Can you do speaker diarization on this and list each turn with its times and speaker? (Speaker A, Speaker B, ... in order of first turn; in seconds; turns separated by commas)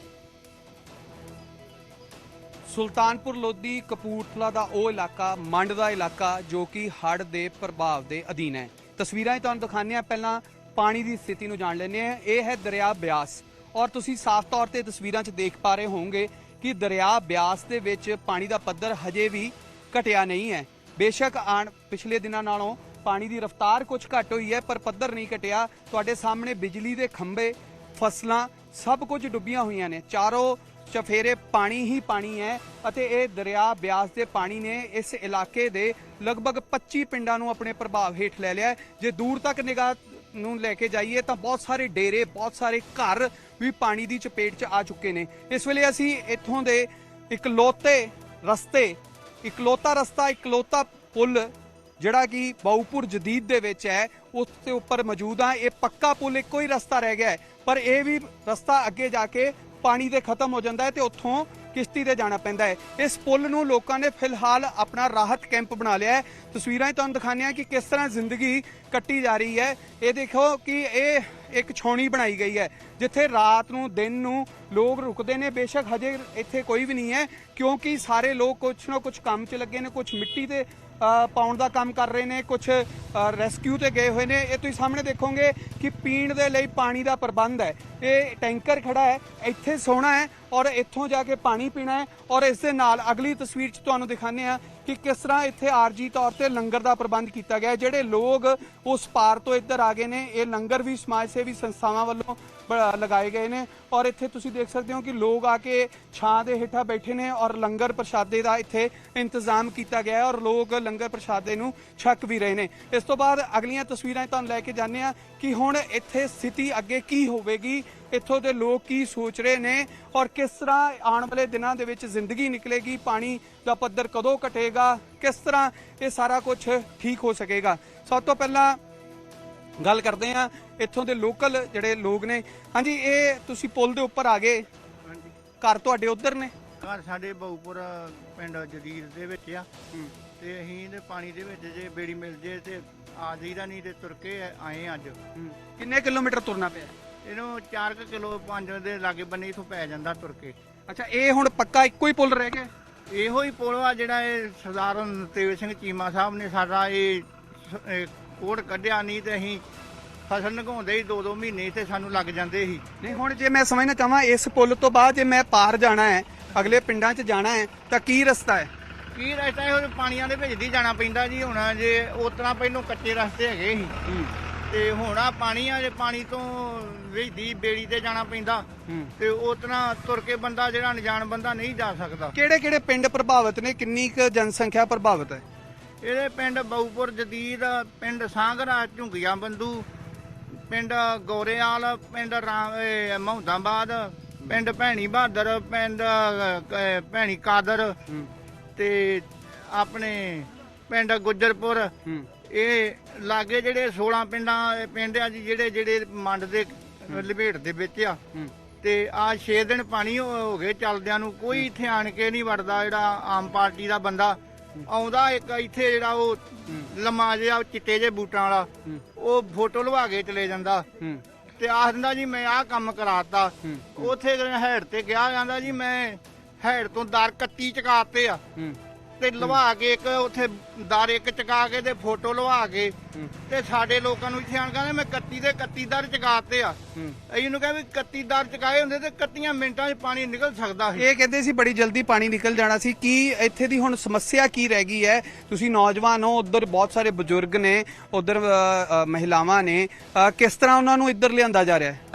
Speaker A: 2.7-128.8, Speaker A: 129.8-134.7, Speaker A: 135.6-136.5, Speaker B: 136.8-139.7, Speaker B: 140.4-145.2, Speaker A: 145.4-146.9, Speaker B: 147.2-150.6, Speaker A: 150.9-152.7, Speaker B: 153.1-159.6, Speaker B: 160.3-162.8, Speaker A: 163.0-168.7, Speaker B: 169.1-173.9, Speaker B: 174.7-178.7, Speaker B: 179.2-182.3, Speaker A: 182.3-185.4, Speaker B: 186.0-189.9, Speaker B: 190.7-198.0, Speaker B: 198.8-201.9, Speaker B: 202.5-208.2, Speaker B: 208.8-220.9, Speaker B: 221.6-228.4, Speaker A: 223.7-224.1, Speaker B: 229.2-232.9, Speaker B: 233.5-241.0, Speaker A: 241.0-252.0